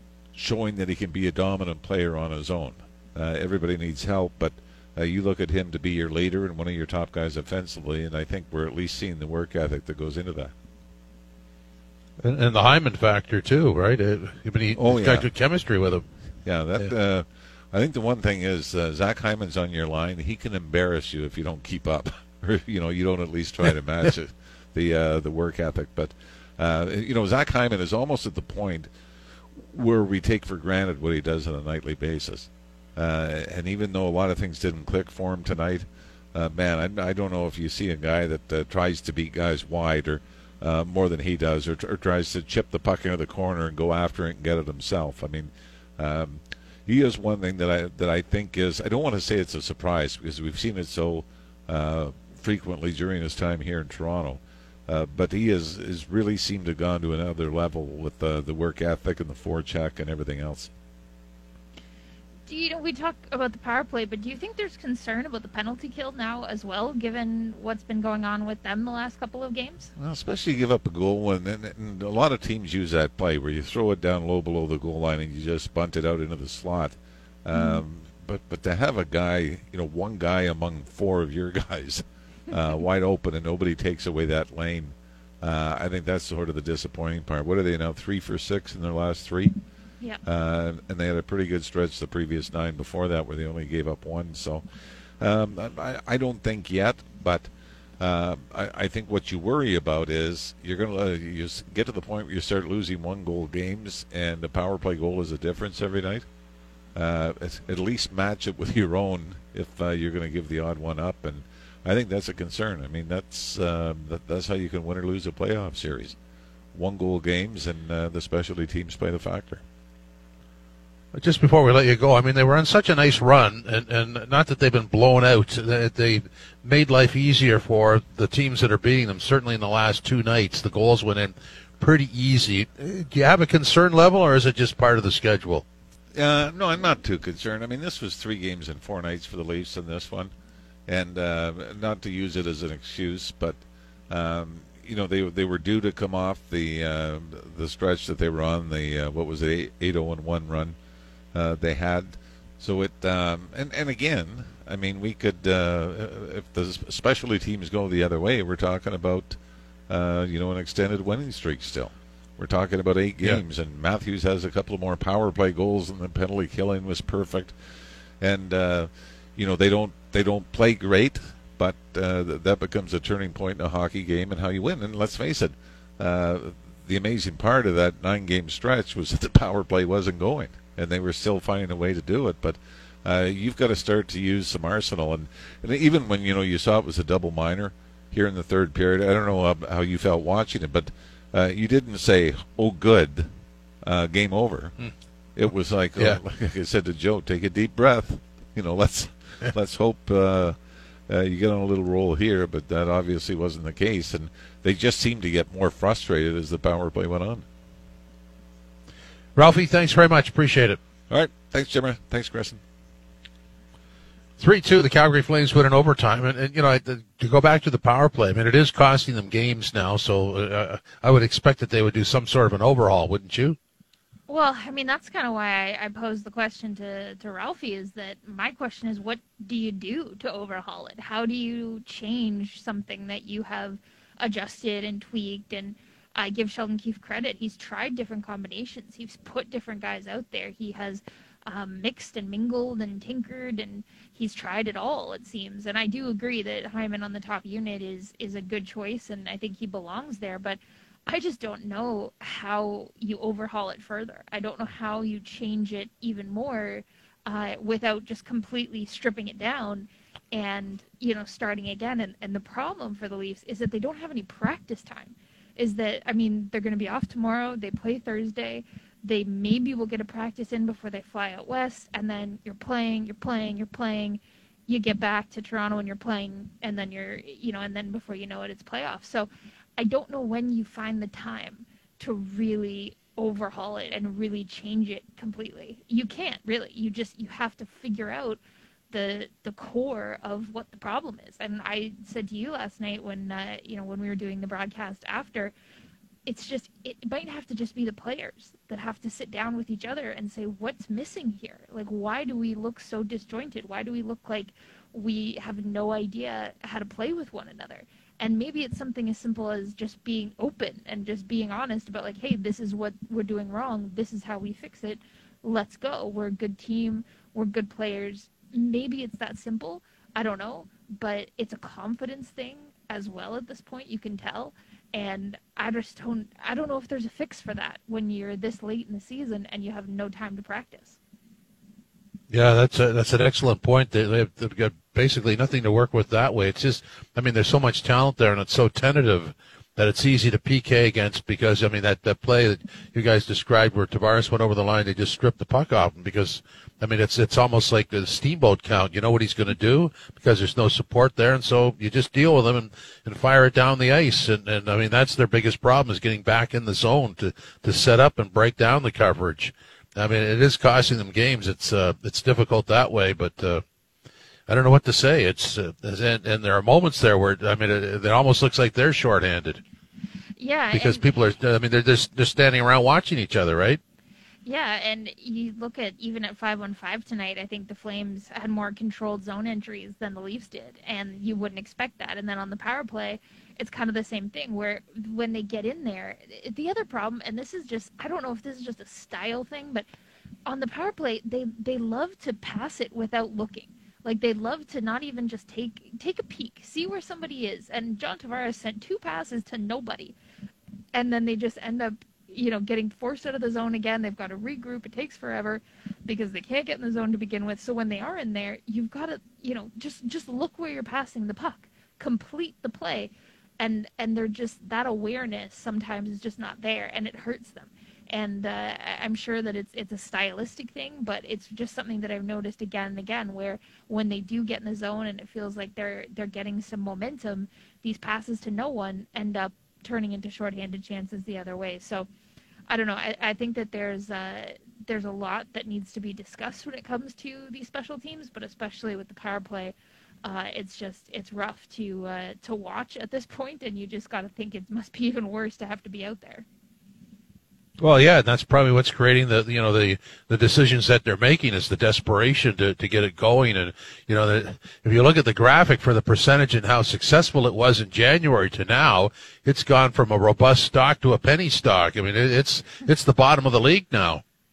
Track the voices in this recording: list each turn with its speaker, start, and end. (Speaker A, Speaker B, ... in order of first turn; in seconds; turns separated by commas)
Speaker A: 0.3-10.5, Speaker B: 12.2-16.0, Speaker A: 14.8-15.3, Speaker A: 16.4-28.9, Speaker A: 29.6-60.7, Speaker C: 62.5-69.9, Speaker A: 70.0-89.5, Speaker C: 77.5-77.8, Speaker A: 90.2-94.6, Speaker A: 95.2-106.2, Speaker A: 106.9-116.2, Speaker A: 116.7-119.6, Speaker B: 121.1-135.6, Speaker A: 136.1-140.3, Speaker A: 140.9-150.8, Speaker A: 151.3-159.4, Speaker A: 159.9-167.5, Speaker A: 168.2-194.8, Speaker A: 195.4-200.6, Speaker A: 201.1-207.4, Speaker B: 209.4-210.8, Speaker A: 211.1-212.6, Speaker B: 214.4-223.6, Speaker C: 224.3-288.4, Speaker C: 288.9-295.5, Speaker C: 296.2-331.0, Speaker B: 332.3-363.6, Speaker B: 364.5-369.6, Speaker C: 370.4-371.1, Speaker B: 370.7-373.8, Speaker C: 374.4-389.9, Speaker C: 390.4-400.1, Speaker C: 400.9-432.1, Speaker C: 432.7-446.4, Speaker B: 447.8-464.2